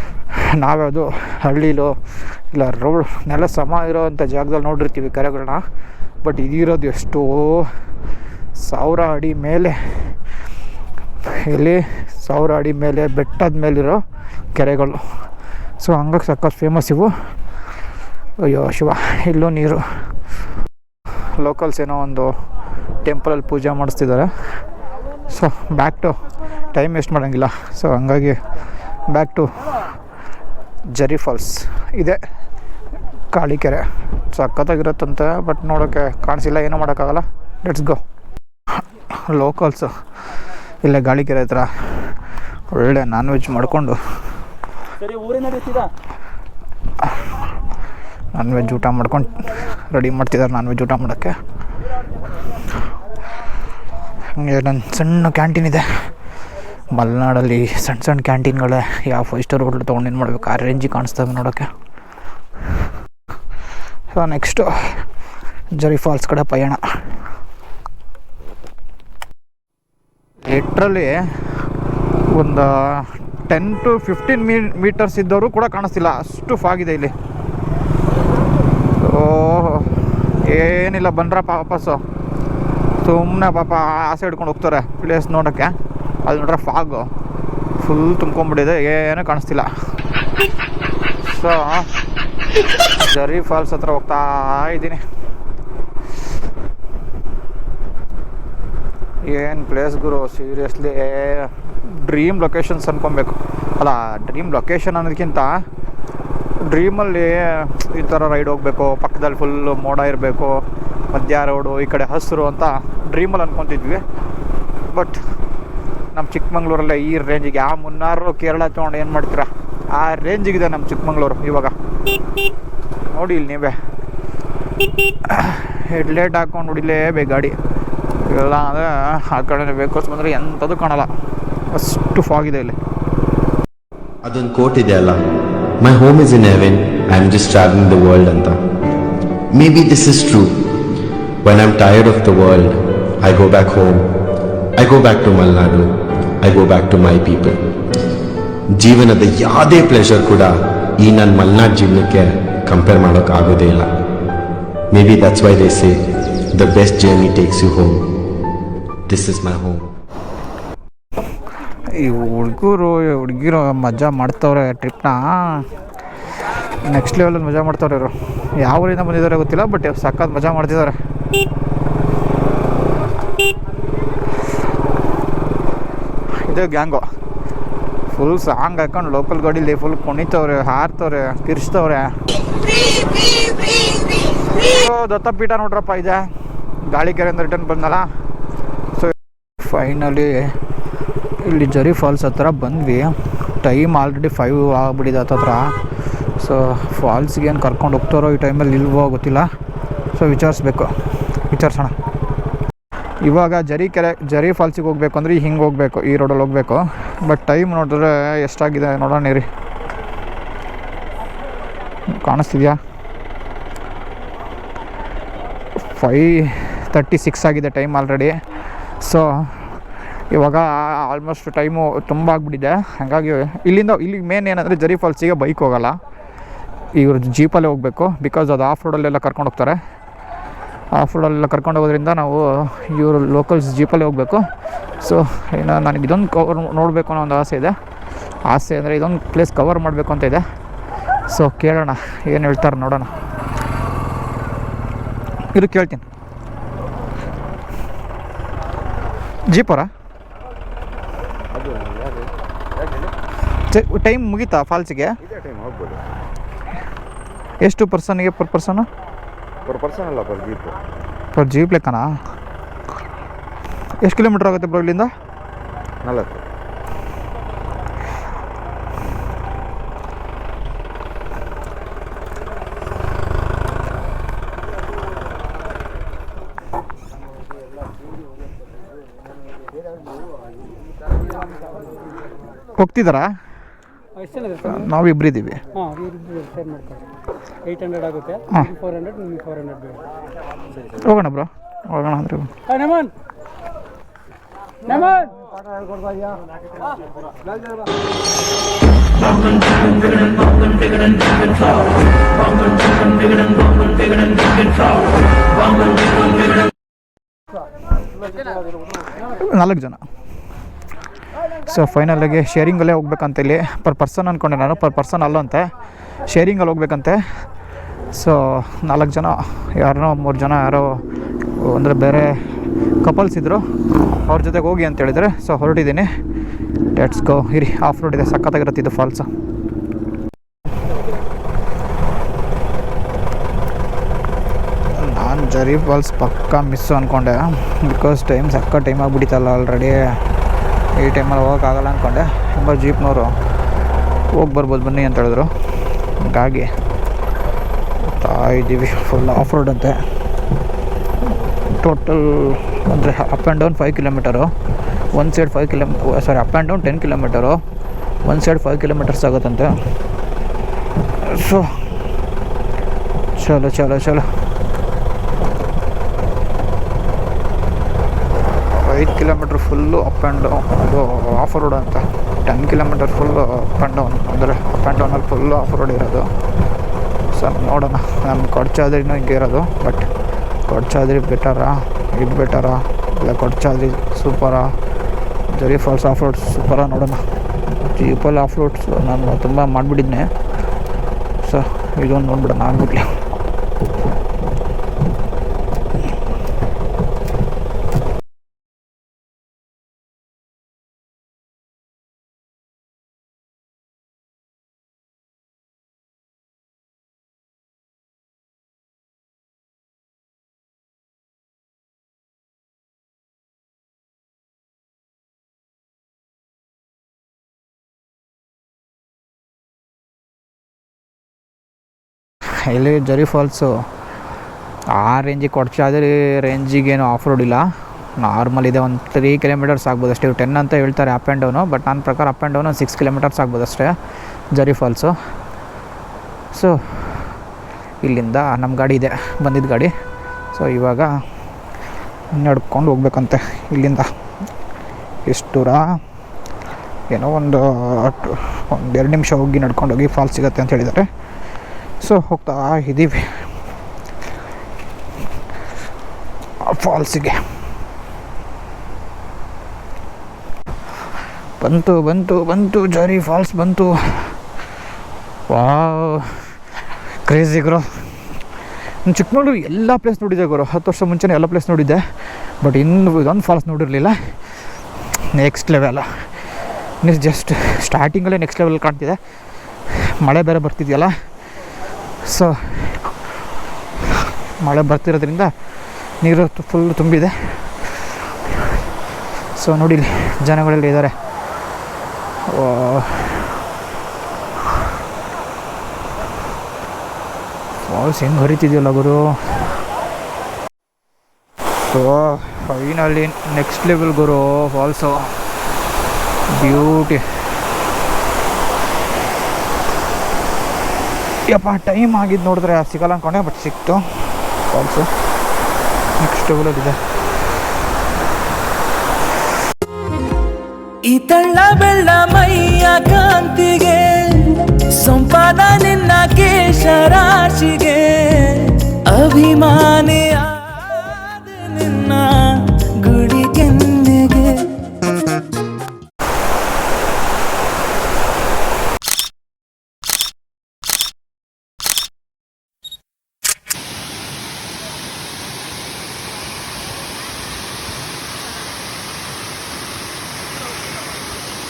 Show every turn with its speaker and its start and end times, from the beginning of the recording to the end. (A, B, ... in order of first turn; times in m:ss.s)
0:00.5-0:01.9 A
0:02.5-0:05.6 A
0:06.2-0:07.7 A
0:08.6-0:09.8 A
0:11.2-0:14.0 A
0:14.5-0:15.0 A
0:15.8-0:17.1 A
0:18.4-0:19.8 A
0:21.4-0:22.3 A
0:23.0-0:24.3 A
0:25.3-0:26.1 A
0:26.7-0:28.4 A
0:29.1-0:29.5 A
0:30.9-0:32.2 A
0:33.3-0:38.0 A
0:39.3-0:39.9 A
0:40.8-0:41.7 A
0:42.7-0:44.0 A
0:45.0-0:45.8 B
0:48.3-0:51.3 A
0:54.4-0:55.8 A
0:56.9-1:01.7 A
1:04.1-1:04.9 A
1:05.8-1:06.8 A
1:10.4-1:11.1 A
1:12.3-1:17.1 A
1:19.0-1:19.9 A
1:20.5-1:22.0 A
1:23.0-1:27.1 A
1:27.8-1:29.7 A
1:31.3-1:31.9 A
1:33.0-1:35.0 A
1:39.3-1:45.6 A
1:46.7-1:54.0 A
1:54.9-1:55.2 A
1:56.1-2:01.7 A
2:03.1-2:03.8 A
2:05.3-2:07.5 A
2:08.2-2:11.1 A
2:11.7-2:12.8 A
2:14.2-2:15.2 C
2:15.8-2:18.6 C
2:19.5-2:20.6 C
2:21.4-2:24.1 C
2:24.8-2:25.9 C
2:26.4-2:27.6 C
2:28.8-2:33.9 C
2:34.9-2:36.0 C
2:36.5-2:38.0 C
2:39.1-2:39.9 C
2:41.9-2:45.6 A
2:46.8-2:50.9 A
2:56.5-2:57.0 A
2:58.1-3:02.1 A
3:04.5-3:06.2 A
3:06.9-3:08.1 A
3:09.0-3:10.5 A
3:11.4-3:13.1 A
3:13.6-3:15.7 A
3:16.4-3:19.5 A
3:20.1-3:20.9 A
3:21.5-3:21.9 A
3:23.2-3:29.4 A
3:32.1-3:32.8 A
3:35.9-3:38.3 A
3:39.0-3:39.3 A
3:40.3-3:46.0 A
3:47.0-3:49.8 A
3:50.9-3:54.4 A
3:55.0-3:57.7 A
3:58.5-4:00.4 A
4:01.3-4:03.1 A
4:05.5-4:06.0 A
4:09.5-4:09.9 A
4:11.5-4:13.1 D
4:13.7-4:15.1 A
4:15.2-4:16.0 D
4:17.6-4:18.9 A
4:19.6-4:20.8 D
4:21.3-4:22.0 A
4:24.0-4:25.1 A
4:26.0-4:26.4 D
4:42.8-4:43.3 A
4:44.3-4:44.6 B
4:44.6-4:45.6 A
4:46.0-4:47.0 B
4:47.7-4:49.9 B
4:51.0-4:52.5 A
4:54.9-4:55.1 B
5:09.3-5:10.0 A
5:11.7-5:15.7 A
5:16.3-5:17.2 A
5:18.1-5:21.0 A
5:21.6-5:22.3 A
5:23.0-5:23.6 A
5:24.3-5:26.1 A
5:26.9-5:29.2 A
5:34.9-5:40.0 A
5:41.0-5:43.3 A
5:44.3-5:45.5 A
5:46.2-5:46.7 A
5:48.1-5:50.0 A
5:51.8-5:54.5 A
5:55.1-5:57.6 A
5:58.2-5:59.7 A
6:01.2-6:01.7 A
6:03.4-6:04.2 A
6:08.8-6:16.3 A
6:17.3-6:20.0 A
6:20.7-6:24.7 A
6:25.5-6:30.3 A
6:31.4-6:33.1 A
7:02.7-7:03.7 A
7:05.0-7:07.6 A
7:08.2-7:13.9 A
7:14.5-7:15.1 A
7:16.5-7:17.3 A
7:18.0-7:19.9 A
7:20.5-7:21.1 A
7:22.3-7:24.0 A
7:25.3-7:25.8 A
7:27.1-7:31.0 A
7:32.0-7:33.2 A
7:36.6-7:37.4 A
7:41.6-7:44.3 A
7:45.5-7:46.3 A
7:47.3-7:47.9 A
7:49.1-7:52.0 A
7:52.6-7:54.1 A
7:55.4-7:56.0 A
7:57.0-7:59.2 A
8:00.2-8:01.1 A
8:02.3-8:03.0 A
8:04.6-8:05.5 A
8:06.2-8:07.3 A
8:09.6-8:11.1 A
8:12.5-8:13.5 A
8:17.9-8:19.2 A
8:21.9-8:25.3 A
8:26.5-8:27.2 A
8:31.5-8:34.0 A
8:34.7-8:35.1 A
8:36.2-8:37.0 A
8:41.1-8:54.5 E